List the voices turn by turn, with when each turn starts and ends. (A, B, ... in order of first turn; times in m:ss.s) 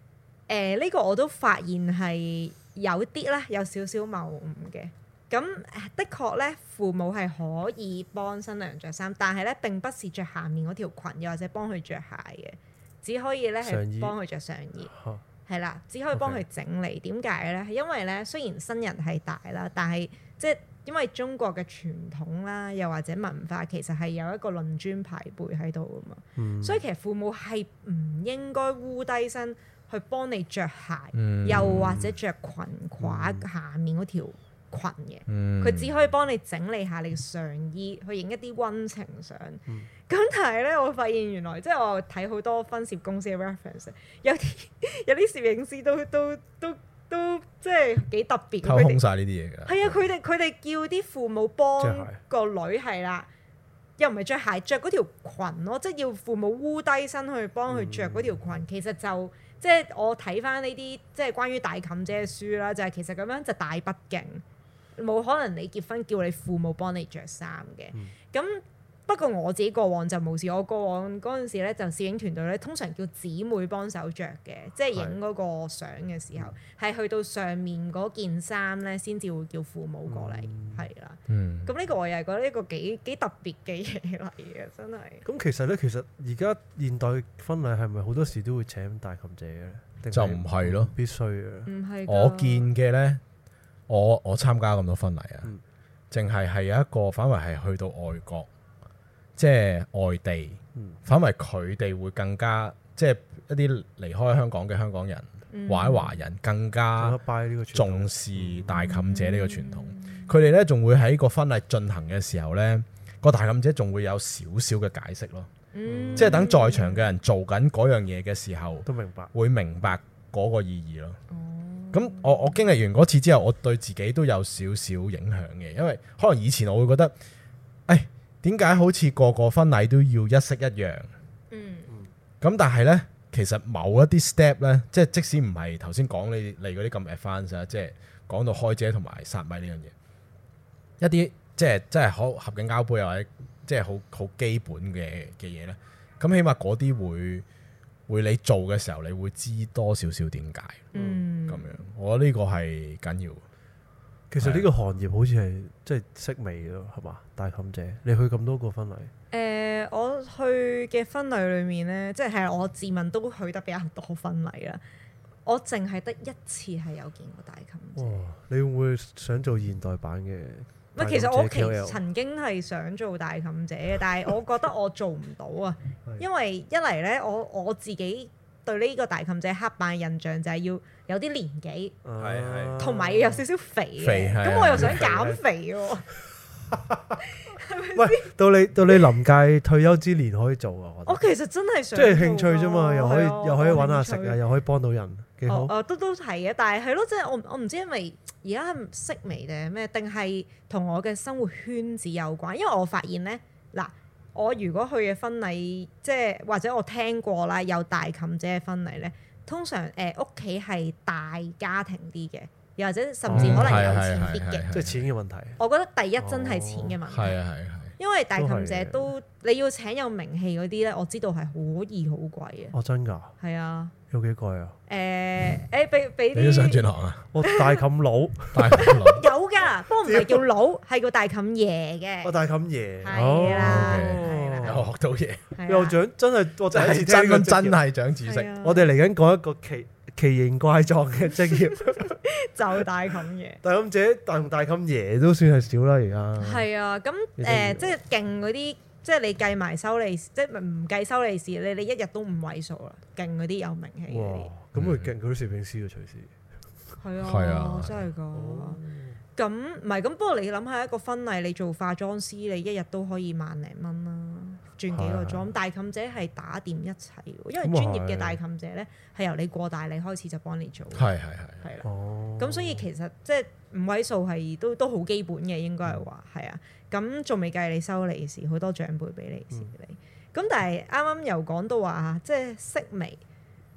0:00.5-0:14.9 A
0:13.6-0:14.1 B
0:14.9-0:15.2 B
0:15.4-0:49.0 A
0:16.1-0:16.4 B
0:26.4-0:26.8 B
0:31.1-0:32.0 C
0:31.6-0:32.1 B
0:33.0-0:33.4 B
0:35.3-0:35.9 C
0:48.6-0:50.1 C
0:49.6-0:53.3 A
0:51.8-0:52.2 B
0:54.0-1:04.4 A
0:57.7-0:58.4 B
1:05.0-1:25.2 A
1:20.1-1:20.8 B
1:21.3-1:21.7 C
1:25.2-1:31.7 B
1:30.1-1:30.9 C
1:31.6-1:32.7 A
1:32.0-1:33.2 C
1:33.9-1:35.5 C
1:36.1-1:38.5 C
1:39.4-1:47.2 C
1:45.5-1:46.2 A
1:47.0-1:48.7 B
1:47.7-1:55.5 C
1:48.7-1:50.3 A
1:55.7-1:57.0 A
1:55.9-1:56.4 B
1:56.2-2:01.2 C
1:58.8-1:59.3 B
2:01.3-2:02.6 A
2:01.9-2:07.1 C
2:07.9-2:11.1 C
2:11.5-2:11.9 A
2:12.4-2:19.9 C
2:21.0-2:27.4 C
2:28.1-2:30.9 C
2:30.9-2:31.2 B
2:30.9-2:31.9 A
2:31.5-2:33.4 C
2:34.3-2:39.1 B
2:34.4-2:34.7 C
2:39.3-2:44.8 A
2:45.4-2:48.2 A
2:48.0-2:52.0 B
2:50.9-3:02.0 A
3:02.0-3:03.4 B
3:02.2-3:02.8 C
3:02.8-3:06.1 A
3:04.0-3:05.1 C
3:04.8-3:05.4 B
3:06.7-3:07.2 B
3:07.3-3:08.3 A
3:07.9-3:11.2 B
3:11.0-3:14.4 A
3:11.9-3:15.7 B
3:15.5-3:34.7 A
3:33.2-3:33.9 B
3:33.3-3:35.1 C
3:34.7-3:35.6 B
3:35.6-3:37.4 A
3:36.2-3:37.0 B
3:37.1-3:38.0 C
3:38.0-3:42.8 A
3:38.4-3:39.1 B
3:42.7-3:43.3 B
3:43.4-3:43.9 A
3:44.1-3:44.7 B
3:44.9-3:46.8 A
3:46.3-3:47.3 C
3:47.3-3:48.9 B
3:47.4-3:47.8 A
3:48.5-3:49.2 C
3:48.7-3:52.3 A
3:50.0-3:50.4 B
3:52.2-3:54.9 B
3:53.0-3:54.8 A
3:53.4-3:55.5 C
3:55.5-3:56.0 A
3:55.7-3:57.8 B
3:56.7-3:58.5 C
3:58.2-3:58.9 A
3:58.6-4:02.2 B
4:01.7-4:03.6 A
4:03.6-4:06.7 B
4:06.4-4:14.5 A
4:07.4-4:07.9 B
4:14.1-4:16.3 B
4:14.8-4:15.1 C
4:17.0-4:18.8 A
4:17.2-4:18.1 C
4:18.3-4:19.2 B
4:19.4-4:31.9 A
4:24.9-4:25.5 B
4:27.6-4:28.4 B
4:30.9-4:31.7 C
4:31.8-4:32.9 B
4:32.4-4:43.2 A